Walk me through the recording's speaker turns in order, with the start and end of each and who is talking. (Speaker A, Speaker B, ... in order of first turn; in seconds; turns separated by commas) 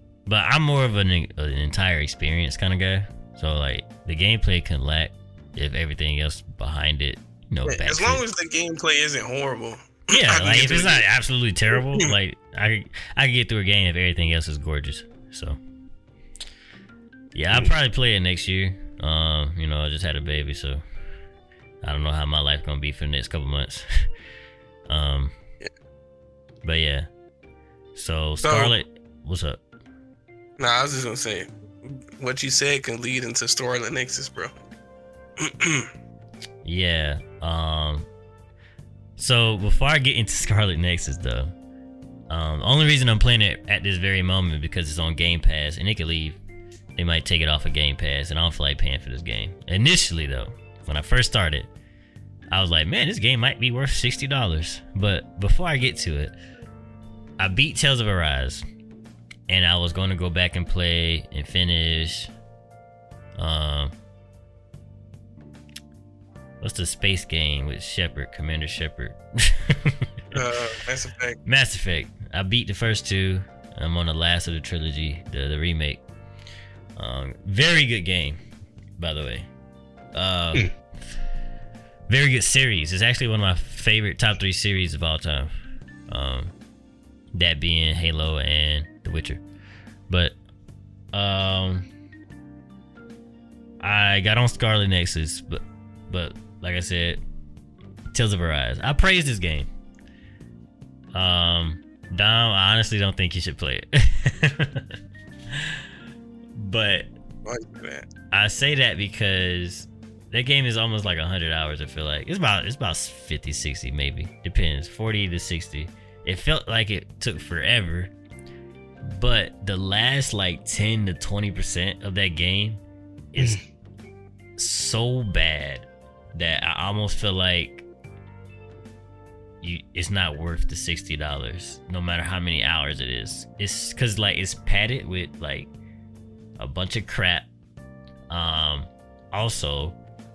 Speaker A: 0.2-8.2, Speaker B: 7.7-11.0, Speaker A: 10.1-15.6, Speaker A: 17.3-20.8, Speaker A: 21.8-24.1, Speaker A: 24.9-25.3, Speaker A: 26.6-27.1, Speaker A: 27.9-29.6, Speaker B: 28.4-28.8, Speaker B: 30.6-34.5, Speaker B: 35.4-35.9, Speaker A: 36.6-38.1, Speaker A: 39.2-41.5, Speaker A: 42.3-46.4, Speaker A: 47.0-51.7, Speaker A: 52.5-56.4, Speaker A: 57.4-58.6, Speaker A: 59.5-62.3, Speaker A: 63.4-63.9, Speaker A: 66.6-70.0, Speaker B: 70.3-71.4, Speaker A: 71.4-76.0, Speaker A: 77.0-78.4, Speaker A: 79.0-79.5, Speaker A: 80.1-80.7, Speaker A: 82.1-85.5, Speaker A: 86.1-86.5, Speaker A: 87.3-89.4, Speaker A: 90.1-90.4, Speaker A: 91.1-91.9, Speaker A: 93.8-97.2, Speaker A: 98.1-99.7, Speaker A: 101.1-104.8, Speaker A: 105.5-105.9, Speaker A: 106.5-107.1, Speaker B: 107.4-108.1, Speaker A: 108.3-118.1, Speaker A: 119.0-122.8, Speaker A: 123.3-123.6, Speaker A: 124.6-127.8, Speaker A: 129.6-135.7, Speaker A: 136.6-137.5, Speaker A: 138.3-140.0